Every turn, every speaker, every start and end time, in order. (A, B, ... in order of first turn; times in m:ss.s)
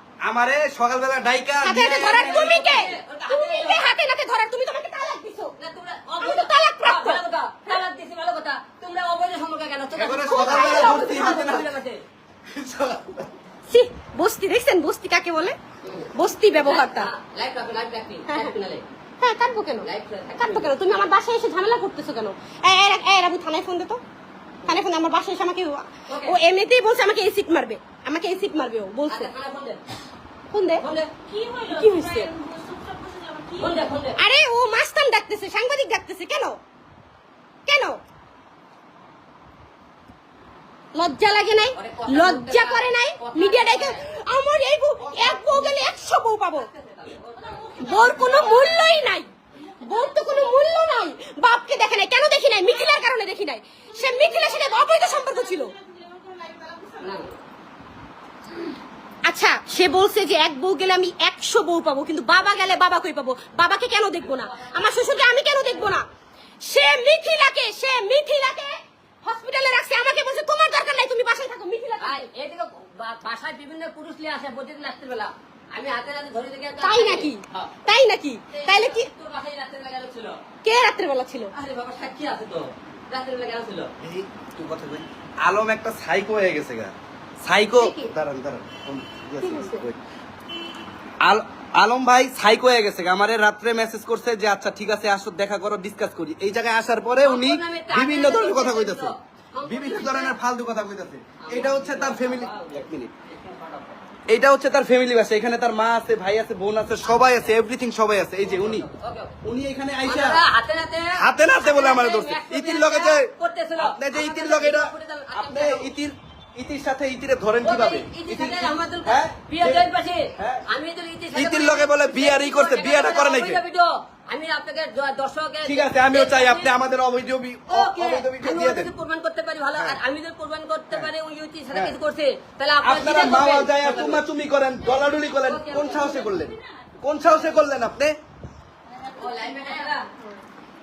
0:00.2-0:02.8 A
0:01.6-0:05.5 B
0:01.8-0:03.9 C
0:05.6-0:12.0 C
0:06.2-0:07.8 B
0:10.0-0:11.7 A
0:10.2-0:11.6 B
0:12.4-0:13.3 A
0:13.7-0:15.6 B
0:15.8-0:18.8 C
0:16.1-0:17.1 B
0:18.3-0:18.5 B
0:19.2-0:19.9 B
0:19.8-0:20.9 C
0:20.4-0:24.0 B
0:24.6-0:29.3 B
0:26.1-0:26.4 C
0:29.1-0:29.8 C
0:30.5-0:30.8 B
0:30.8-0:31.1 C
0:31.2-0:33.8 D
0:31.8-0:32.3 B
0:33.6-0:34.2 C
0:34.2-0:36.6 B
0:37.6-0:38.0 B
0:40.9-0:46.7 B
0:41.7-0:44.0 C
0:45.0-0:45.7 A
0:46.6-0:47.7 C
0:47.4-0:49.0 D
0:47.8-0:49.3 B
0:49.6-0:50.7 D
0:49.8-0:55.7 B
0:52.7-0:53.0 D
0:53.8-0:57.3 D
0:57.0-0:57.3 C
0:59.2-1:06.0 B
1:04.4-1:05.3 C
1:06.6-1:12.3 B
1:12.0-1:17.7 C
1:16.8-1:19.1 B
1:18.5-1:20.4 C
1:20.6-1:21.5 B
1:21.5-1:23.9 C
1:24.0-1:30.0 A
1:27.8-1:28.1 B
1:29.4-1:29.8 B
1:31.2-1:43.1 A
1:37.2-1:40.4 C
1:41.4-1:44.0 C
1:44.3-1:48.9 A
1:47.1-1:47.4 C
1:48.4-1:49.4 C
1:49.4-1:50.4 A
1:50.0-1:55.9 C
1:51.2-2:00.6 A
1:57.6-2:06.7 C
2:01.3-2:03.6 A
2:05.6-2:08.9 A
2:07.7-2:14.2 C
2:12.8-2:18.2 A
2:14.8-2:16.8 D
2:15.4-2:16.0 C
2:18.9-2:20.0 D
2:19.2-2:20.1 C